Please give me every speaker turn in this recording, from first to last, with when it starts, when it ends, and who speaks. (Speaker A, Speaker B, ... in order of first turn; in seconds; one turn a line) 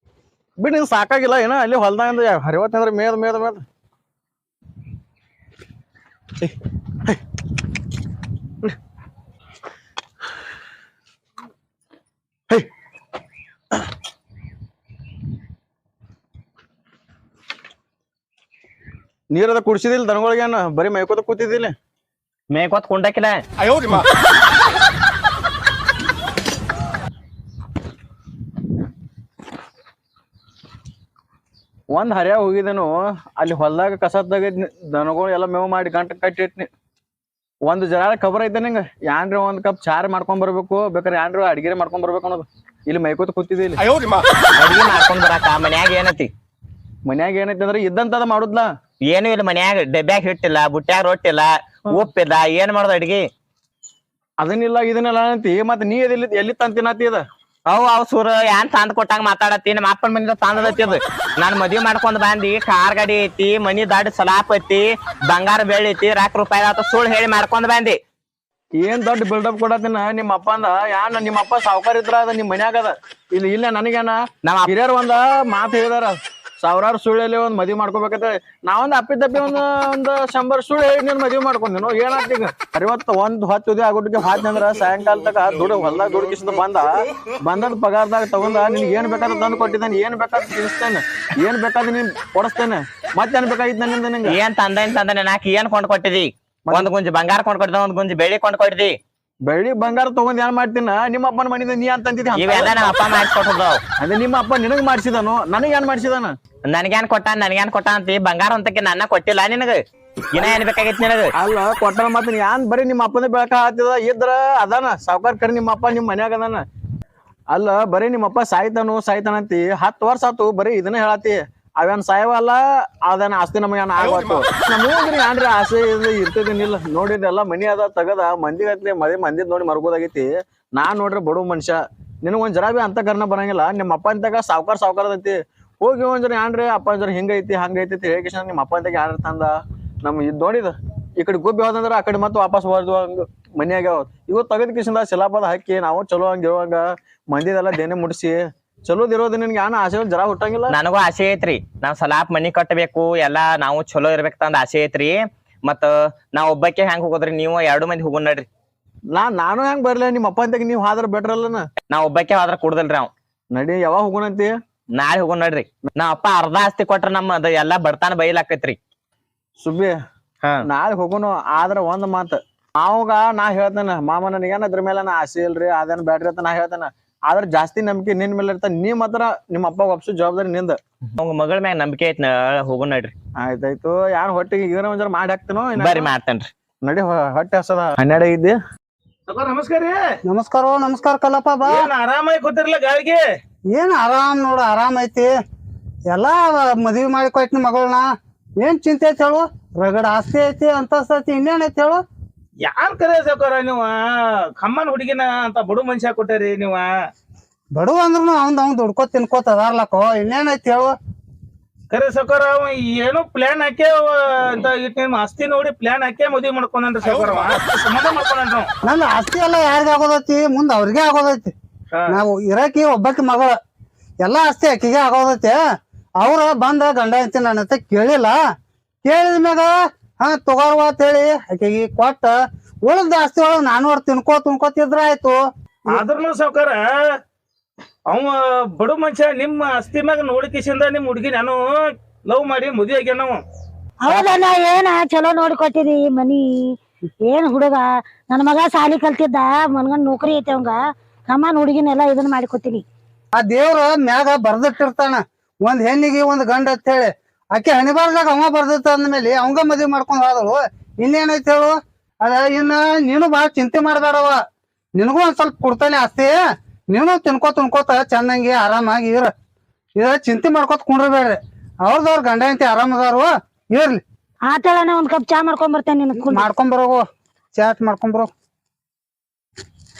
Speaker A: 0.6-3.6
Speaker A: 19.3-21.7
Speaker B: 22.5-24.0
Speaker A: 31.9-36.7
Speaker A: 37.6-43.8
Speaker B: 44.6-46.3
Speaker A: 47.0-48.7
Speaker B: 49.1-53.3
Speaker A: 54.4-57.2
Speaker B: 57.7-68.0
Speaker A: 68.8-86.9
Speaker B: 74.4-74.7
Speaker A: 87.4-94.4
Speaker B: 94.2-99.0
Speaker A: 99.4-103.2
Speaker B: 102.4-103.8
Speaker A: 104.0-106.3
Speaker B: 106.7-111.3
Speaker A: 111.4-116.6
Speaker A: 117.5-150.8
Speaker B: 150.7-158.5
Speaker A: 159.1-161.7
Speaker B: 161.9-163.1
Speaker A: 163.5-164.5
Speaker B: 164.9-168.8
Speaker A: 169.6-170.0
Speaker A: 170.6-180.8
Speaker B: 181.2-183.1
Speaker A: 183.3-186.1
Speaker B: 185.8-186.5
Speaker A: 186.8-188.6
Speaker C: 189.3-190.0
Speaker D: 190.2-191.9
Speaker C: 191.7-193.2
Speaker D: 193.7-195.3
Speaker D: 196.1-198.1
Speaker D: 198.6-202.0
Speaker C: 202.6-204.0
Speaker C: 204.6-206.9
Speaker D: 207.7-210.9
Speaker C: 211.9-218.7
Speaker D: 218.8-221.5
Speaker D: 222.1-223.6
Speaker D: 224.2-225.6
Speaker D: 226.2-228.4
Speaker D: 229.0-232.3
Speaker D: 232.8-235.3
Speaker C: 235.9-236.8
Speaker C: 238.1-241.6
Speaker C: 242.3-243.4
Speaker E: 244.0-246.7
Speaker E: 247.3-252.8
Speaker D: 253.3-264.4
Speaker D: 265.0-266.3
Speaker D: 266.9-269.3
Speaker D: 270.0-274.0
Speaker E: 274.5-276.5
Speaker D: 276.3-277.0
Speaker D: 277.6-278.3